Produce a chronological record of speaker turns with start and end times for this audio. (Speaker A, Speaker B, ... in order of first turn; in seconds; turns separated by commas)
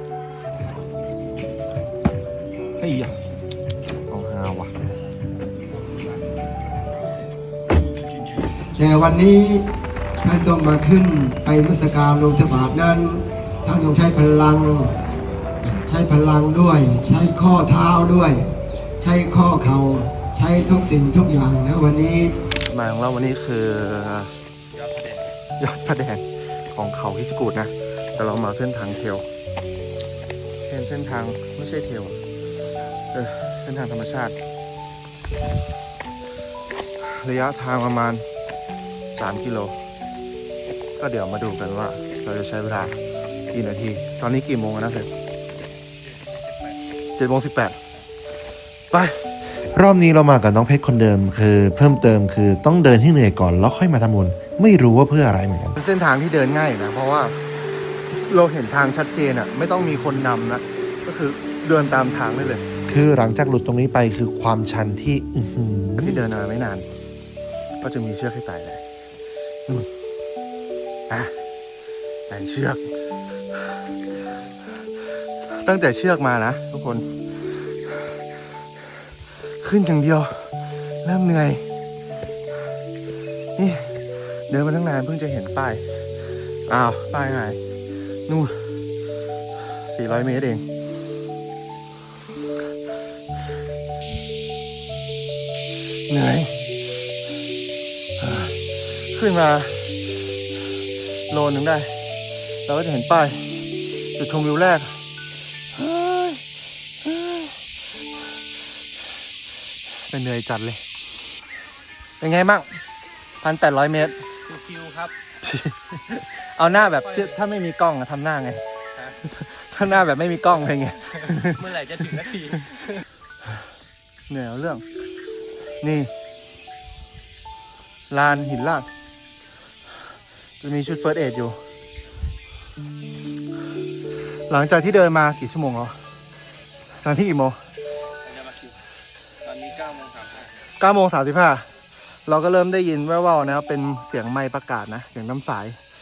Speaker A: 4.1-4.7, Speaker B: 8.8-9.7, Speaker B: 10.2-14.9, Speaker B: 15.6-22.4, Speaker C: 22.7-24.3, Speaker C: 25.0-29.2, Speaker C: 30.7-32.2, Speaker C: 33.1-34.4, Speaker C: 37.0-38.2, Speaker C: 39.1-39.7, Speaker C: 41.0-43.0, Speaker C: 43.5-45.1, Speaker C: 47.2-47.8, Speaker A: 49.7-55.8, Speaker C: 55.8-57.4, Speaker C: 58.2-62.6, Speaker A: 62.9-66.2, Speaker C: 66.0-66.8, Speaker C: 67.8-68.8, Speaker C: 72.3-72.8, Speaker C: 75.5-77.1, Speaker C: 79.6-80.5, Speaker C: 81.0-81.6, Speaker C: 83.6-83.9, Speaker C: 84.5-85.8, Speaker C: 86.7-87.6, Speaker C: 88.3-88.7, Speaker C: 89.9-90.7, Speaker C: 96.1-96.5, Speaker C: 98.2-98.5, Speaker C: 99.1-99.9, Speaker C: 101.3-101.9, Speaker C: 102.7-103.4, Speaker C: 104.2-104.9, Speaker C: 105.8-106.4, Speaker C: 107.0-107.5, Speaker C: 110.1-110.8, Speaker C: 112.2-112.7, Speaker C: 113.4-114.2, Speaker D: 114.5-115.1, Speaker C: 115.4-118.6, Speaker C: 119.2-122.2, Speaker D: 121.6-122.7, Speaker C: 124.3-124.8, Speaker C: 125.8-126.1, Speaker C: 128.1-128.9, Speaker C: 130.6-131.6, Speaker C: 134.5-136.0, Speaker C: 137.0-137.6, Speaker D: 139.5-140.3, Speaker C: 140.8-141.7, Speaker C: 142.2-145.8